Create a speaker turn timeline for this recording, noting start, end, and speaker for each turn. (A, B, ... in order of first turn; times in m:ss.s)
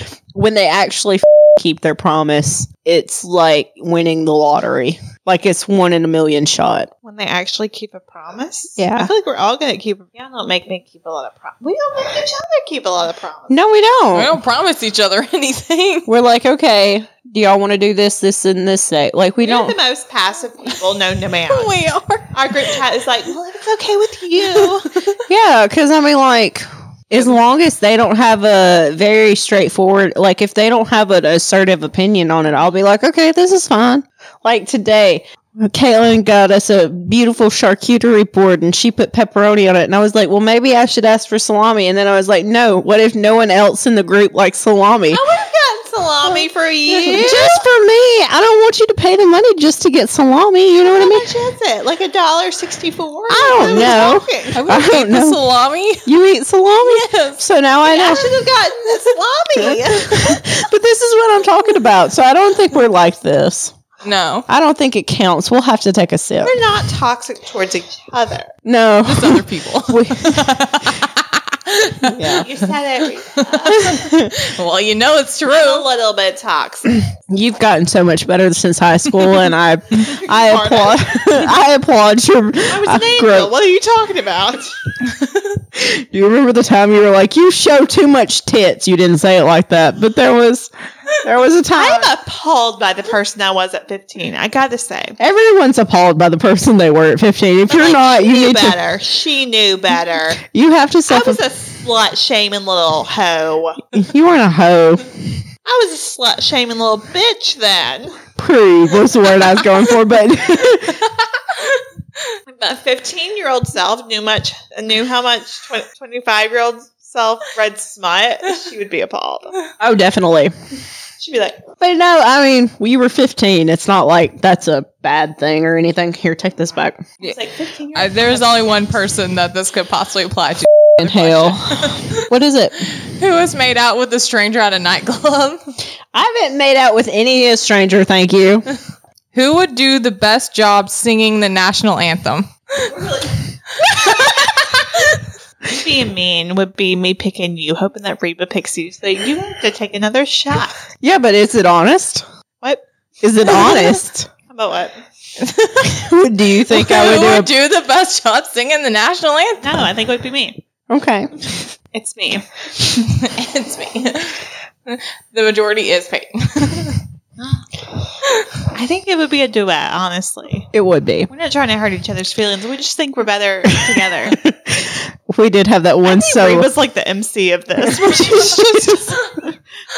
0:00.3-0:06.9 A
0:07.0-0:13.5 B
0:08.8-0:09.1 A
0:13.5-0:14.4 A
0:14.1-0:16.1 C
0:16.1-0:19.8 A
0:19.4-0:25.0 B
0:21.5-0:22.8 C
0:25.3-0:45.2 A
0:45.1-0:47.6 B
0:46.9-0:51.3 A
0:50.8-0:54.6 B
0:53.3-0:55.4 A
0:54.5-0:56.1 C
0:56.0-0:58.4 A
0:56.8-0:57.4 C
0:57.8-1:00.4 B
0:59.6-1:03.8 A
1:04.0-1:04.5 C
1:04.5-1:06.5 A
1:06.4-1:08.5 B
1:08.6-1:10.6 A
1:09.0-1:12.4 C
1:12.0-1:12.5 A
1:12.3-1:14.0 B
1:13.4-1:15.8 C
1:13.6-1:14.4 A
1:15.5-1:17.0 B
1:17.3-1:23.5 A
1:20.0-1:21.5 B
1:22.7-1:24.7 B
1:25.6-1:32.1 A
1:31.7-1:35.2 B
1:35.2-1:38.8 A
1:37.7-1:40.4 B
1:40.4-1:41.4 A
1:41.1-1:43.8 B
1:43.9-1:45.4 A
1:45.6-1:48.2 B
1:48.4-1:51.1 A
1:52.5-1:59.6 B
1:59.8-2:00.5 A
2:01.2-2:01.6 B
2:01.8-2:07.0 A
2:07.2-2:08.9 B
2:07.9-2:12.2 C
2:11.0-2:12.7 A
2:12.8-2:15.6 C
2:16.1-2:18.7 A
2:19.3-2:22.9 C
2:22.8-2:23.4 B
2:23.9-2:25.0 C
2:25.7-2:30.8 B
2:31.0-2:32.2 A
2:33.2-2:34.3 A
2:34.5-2:35.0 B
2:35.4-2:36.0 C
2:35.8-2:37.5 A
2:36.7-2:39.7 C
2:39.6-2:40.6 B
2:40.9-2:41.3 A
2:41.9-2:42.4 B
2:43.0-2:47.0 C
2:47.4-2:47.6 B
2:48.7-2:50.7 B
2:50.7-2:51.3 A
2:51.3-2:54.4 B
2:53.8-2:56.7 A
2:56.0-2:59.4 B
2:57.8-2:58.9 A